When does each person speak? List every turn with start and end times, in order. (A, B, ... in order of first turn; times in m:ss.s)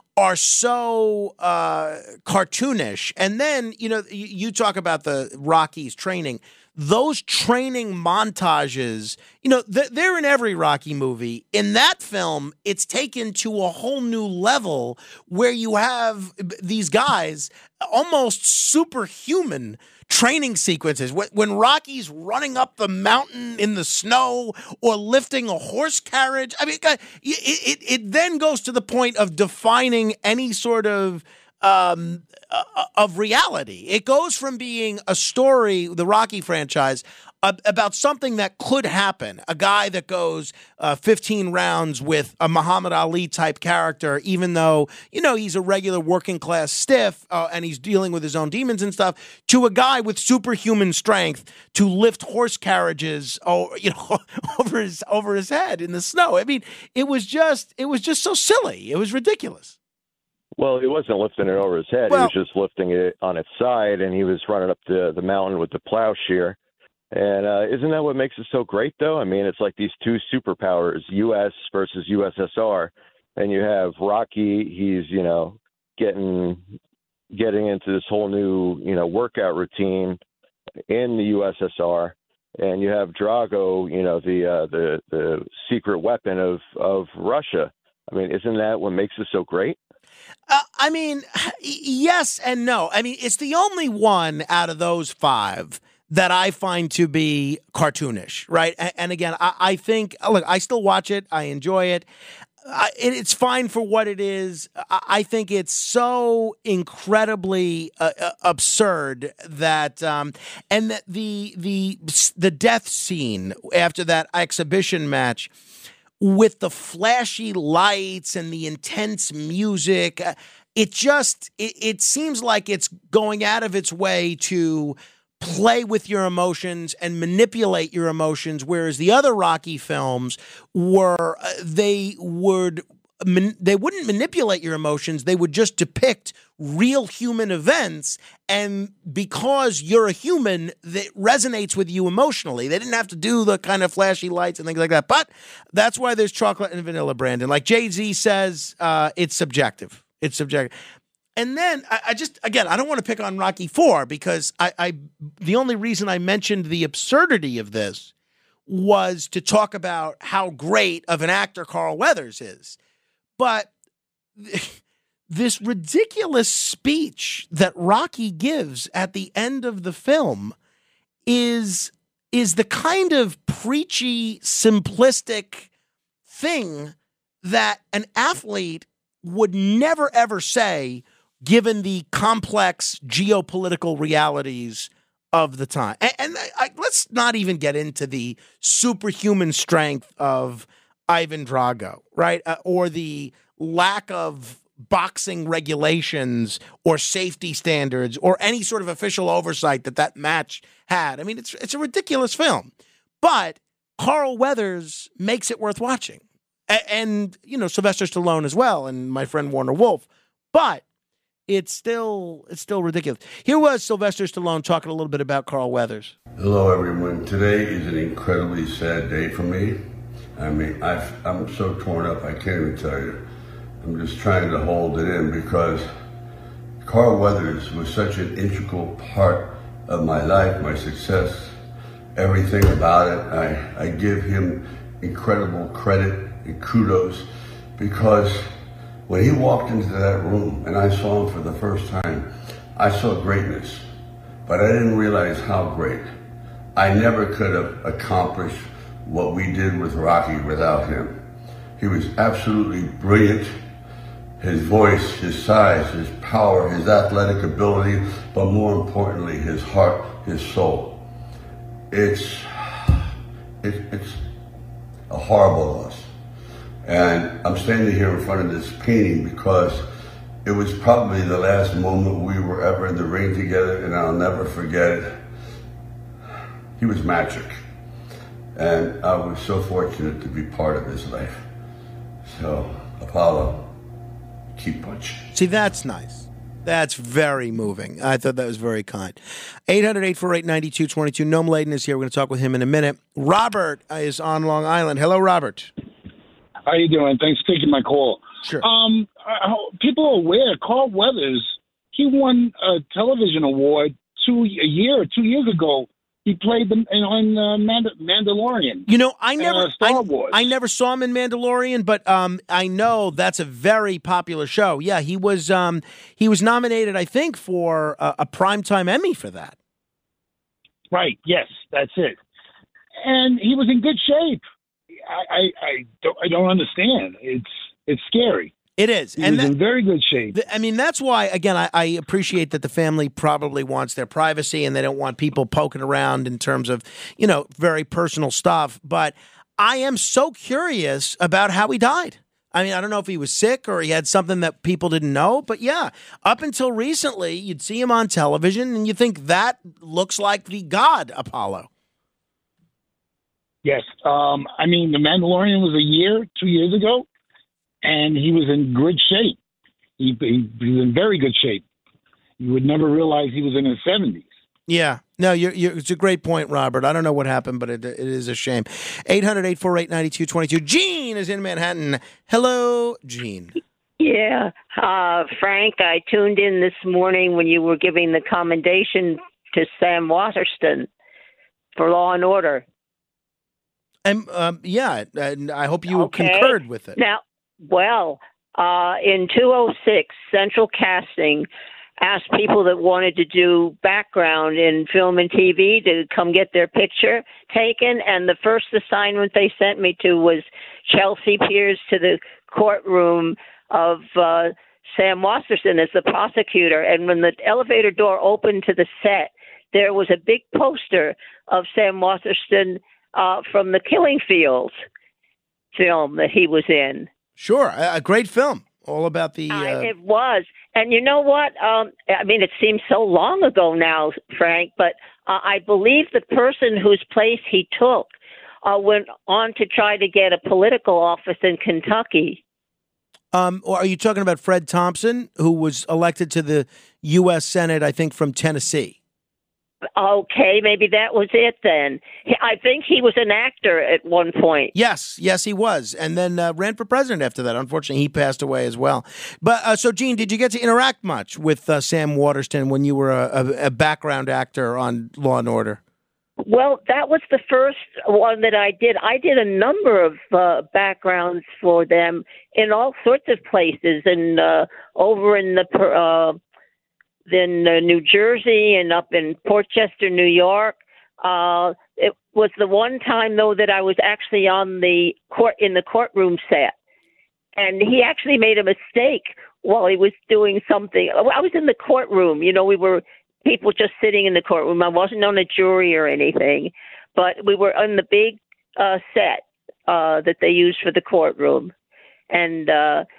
0:00.2-0:59.8 A
1:00.6-1:06.6 B
1:07.1-1:16.6 B
1:17.3-1:20.2 B
1:20.9-1:29.8 B
1:30.5-1:42.0 A
1:42.6-1:55.5 A
1:56.2-2:30.7 A
2:31.4-2:38.1 A
2:38.7-2:42.8 A
2:43.4-2:43.7 A
2:44.4-2:44.8 A
2:45.3-2:50.5 A
2:51.2-2:55.7 A
2:56.3-3:30.8 A
3:31.5-3:36.1 A
3:36.4-3:39.8 C
3:40.4-3:43.2 C
3:43.8-3:45.9 C
3:46.8-3:51.6 C
3:52.2-3:57.2 C
3:57.8-3:58.5 C
3:59.1-4:03.9 C
4:04.4-4:06.1 C
4:06.8-4:11.2 C
4:11.8-4:13.5 C
4:14.4-4:21.0 C
4:21.9-4:23.0 C
4:23.6-4:24.2 C
4:25.1-4:26.1 C
4:26.8-4:29.8 C
4:30.4-4:35.2 C
4:36.8-4:37.6 C
4:38.6-4:41.4 C
4:42.3-4:43.7 C
4:44.6-4:45.3 C
4:45.3-4:55.7 A
4:56.7-5:08.8 D
5:08.9-5:19.6 A
5:09.4-5:10.5 D
5:20.9-5:22.2 D
5:23.0-5:24.4 D
5:25.0-5:28.5 D
5:28.8-5:29.6 A
5:29.2-5:30.4 D
5:30.3-5:51.7 A
5:53.6-5:57.1 D
5:57.8-5:59.4 D
6:00.0-6:01.6 D
6:02.4-6:04.3 D
6:04.7-6:13.5 A
6:14.0-6:20.9 E
6:21.8-6:22.6 E
6:24.0-6:27.0 A
6:25.9-6:31.5 E
6:32.0-6:54.7 E
6:55.7-6:57.1 E
6:57.4-6:59.9 A
6:59.5-7:08.1 E
7:08.6-7:12.4 E
7:13.3-7:19.0 A
7:20.0-7:24.7 E
7:24.7-7:35.8 A
7:36.4-7:46.4 E
7:47.3-7:56.7 E
7:57.6-8:11.7 E
8:12.3-8:13.0 E